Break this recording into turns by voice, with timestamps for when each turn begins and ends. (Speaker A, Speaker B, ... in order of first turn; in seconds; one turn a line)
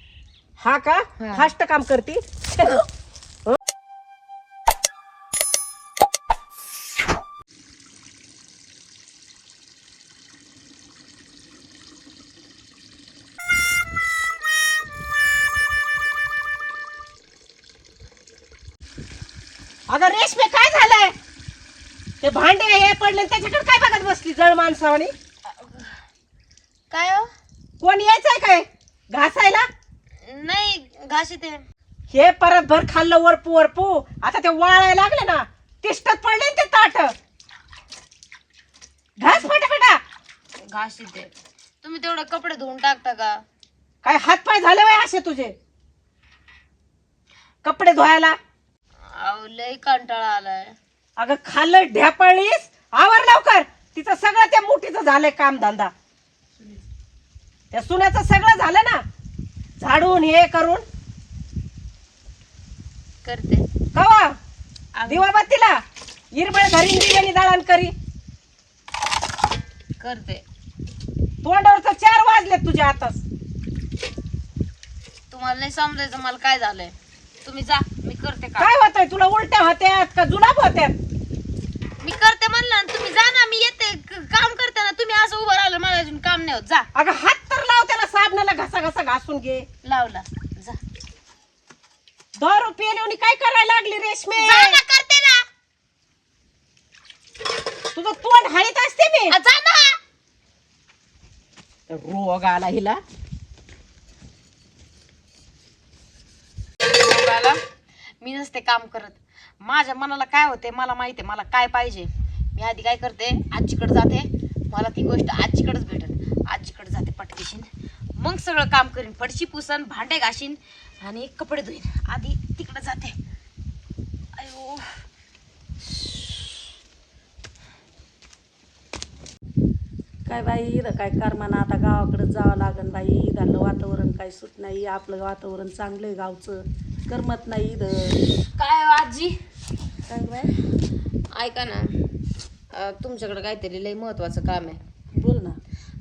Speaker A: 0.6-2.8
Speaker B: 1.2-1.5
Speaker A: 19.9-21.1
Speaker A: 22.2-25.1
Speaker B: 25.5-26.0
Speaker B: 26.9-27.3
Speaker A: 27.8-29.7
Speaker B: 30.2-31.6
Speaker A: 32.1-37.1
Speaker A: 39.2-40.0
Speaker B: 40.6-41.3
Speaker B: 41.8-43.4
Speaker A: 44.0-45.5
Speaker A: 47.6-48.4
Speaker B: 49.1-50.8
Speaker A: 51.2-55.9
Speaker A: 57.7-59.0
Speaker A: 59.8-60.8
Speaker B: 63.2-63.7
Speaker A: 64.0-64.4
Speaker B: 65.0-65.3
Speaker A: 65.1-65.8
Speaker A: 66.3-67.9
Speaker B: 70.0-70.4
Speaker A: 71.4-73.2
Speaker B: 75.3-78.7
Speaker A: 78.6-81.0
Speaker B: 82.0-86.9
Speaker A: 87.0-89.7
Speaker B: 89.8-90.8
Speaker A: 92.4-94.8
Speaker B: 94.4-95.5
Speaker A: 97.9-99.3
Speaker B: 99.3-100.0
Speaker A: 101.9-103.0
Speaker B: 106.8-107.6
Speaker B: 108.2-123.2
Speaker B: 124.3-125.0
Speaker C: 130.3-138.2
Speaker B: 138.4-139.4
Speaker B: 140.1-140.7
Speaker C: 140.2-140.4
Speaker B: 141.3-142.0
Speaker B: 142.7-144.8
Speaker C: 145.1-145.6